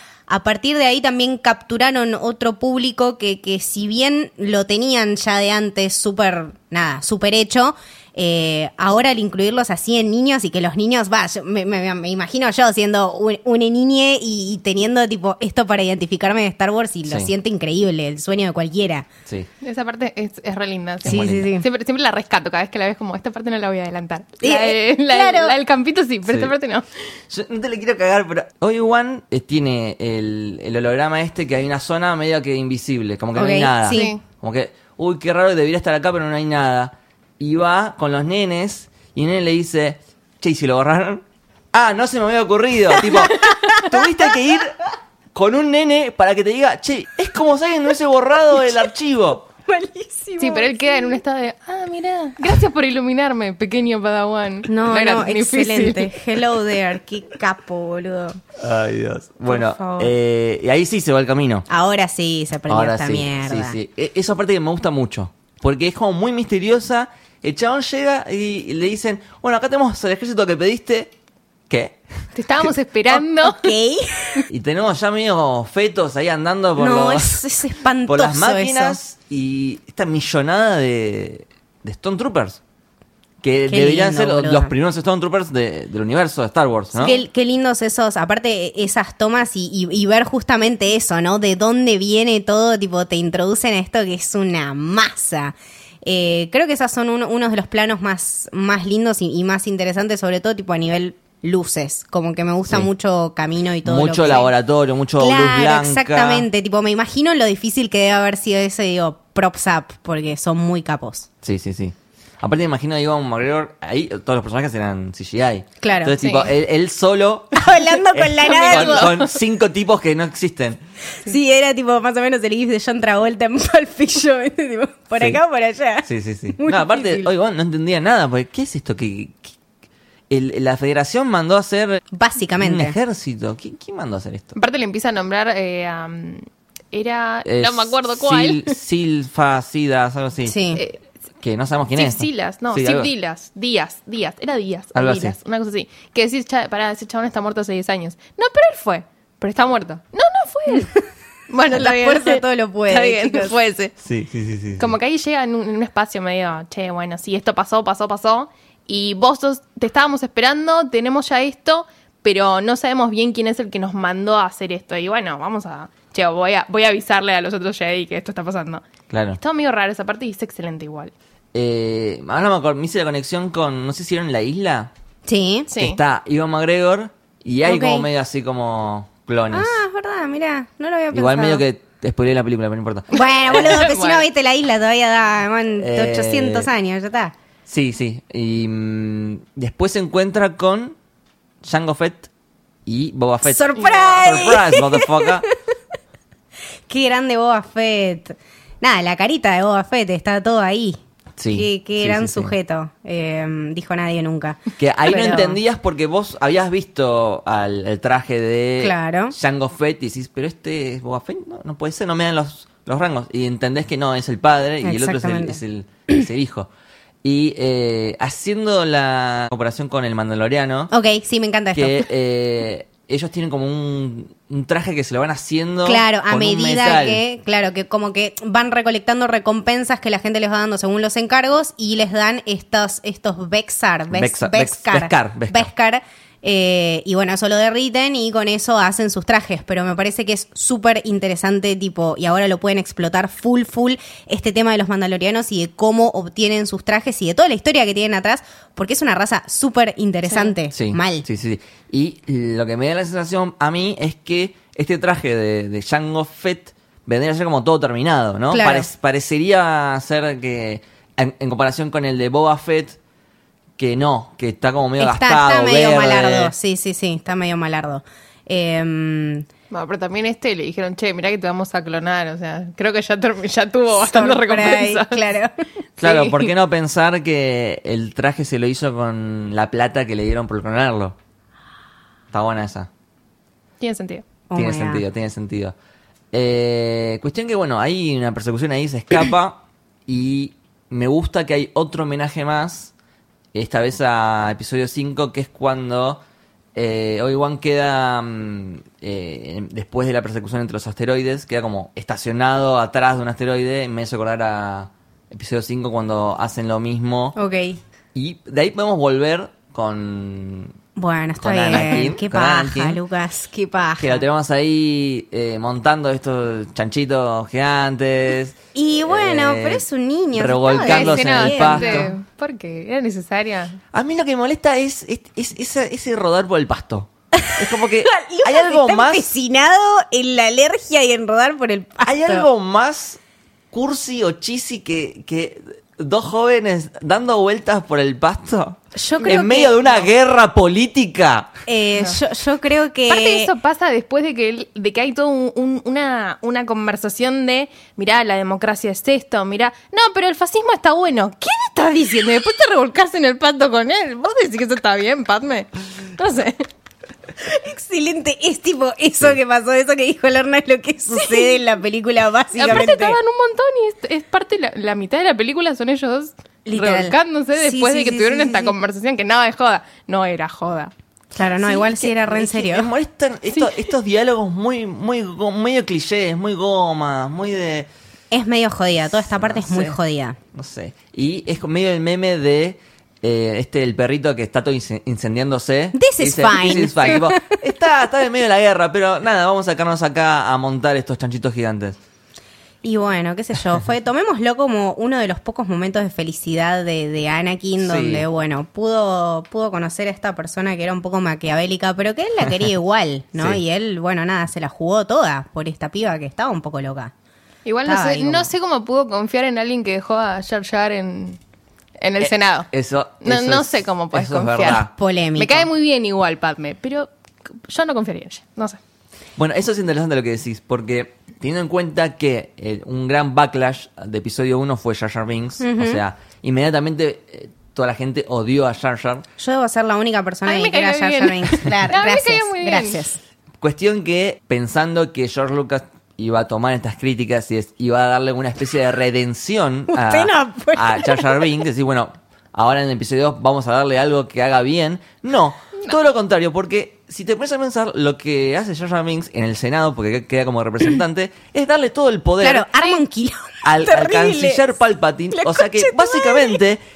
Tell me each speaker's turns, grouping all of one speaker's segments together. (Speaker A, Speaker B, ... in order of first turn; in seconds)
Speaker A: 0.3-19.1, 21.1-21.7, 24.4-25.6, 33.4-34.1, 43.0-44.0, 49.7-51.2, 54.7-58.4, 59.5-60.1, 61.7-63.8, 73.1-74.5, 76.8-79.0, 83.7-84.7, 86.9-104.5, 105.2-111.3, 115.8-116.5, 117.5-119.2, 121.2-127.3, 132.1-133.0, 140.4-140.8, 151.7-153.6, 175.3-175.7, 177.7-178.1, 179.5-181.6, 183.1-187.3, 193.4-195.5, 196.9-201.0, 201.5-205.6, 208.8-209.3, 214.8-216.3, 220.9-222.1, 225.8-251.2, 258.5-258.9, 265.0-269.5, 273.9-275.5, 284.5-285.0, 307.4-307.8, 311.0-314.2, 318.8-322.1, 327.4-332.5, 338.9-340.0, 341.7-343.5, 357.4-363.2, 366.7-368.8, 371.4-372.9, 378.3-380.4, 385.9-387.6, 392.8-407.1, 407.9-408.5, 414.7-415.7, 425.6-426.0, 429.4-433.2, 439.9-441.6, 452.4-454.7, 455.3-456.6
Speaker B: 17.1-17.3, 21.0-21.5, 26.3-26.5, 27.3-44.8, 45.3-49.5, 58.6-61.7, 62.7-71.1, 71.7-72.0, 74.5-77.4, 78.1-82.6, 83.4-87.2, 103.8-106.5, 111.4-120.8, 126.1-129.6, 130.3-132.0, 132.6-134.6, 137.4-140.6, 141.4-143.1, 144.9-145.4, 154.0-154.9, 169.1-169.4, 171.5-174.9, 175.8-179.8, 181.1-183.8, 185.8-186.7, 187.7-191.0, 191.6-192.3, 192.9-195.4, 201.4-202.5, 204.8-216.7, 217.2-220.9, 221.8-227.2, 234.1-235.7, 250.7-263.0, 263.8-266.5, 276.0-281.2, 282.3-282.9, 284.6-285.8, 286.3-292.9, 293.5-296.2, 296.8-307.4, 308.1-310.7, 311.4-313.0, 314.0-322.1, 323.9-329.3, 332.1-333.2, 333.7-341.5, 371.7-377.9, 379.3-380.0, 380.5-392.0, 397.8-398.3, 412.2-414.9, 419.4-429.3, 433.6-452.7, 453.6-456.8
Speaker C: 19.6-26.9, 33.9-34.2, 50.4-56.5, 72.3-73.8, 118.5-119.3, 134.6-138.8, 141.9-151.0, 151.5-153.9, 154.8-171.1, 175.7-176.0, 183.2-184.3, 193.8-194.2, 269.7-275.2, 276.0-276.5, 283.8-284.2, 320.8-323.8, 339.2-339.6, 343.1-356.7, 361.2-361.5, 362.6-370.9, 407.6-411.4, 412.0-412.7, 413.2-414.8, 415.4-417.1, 417.6-418.8, 430.5-433.0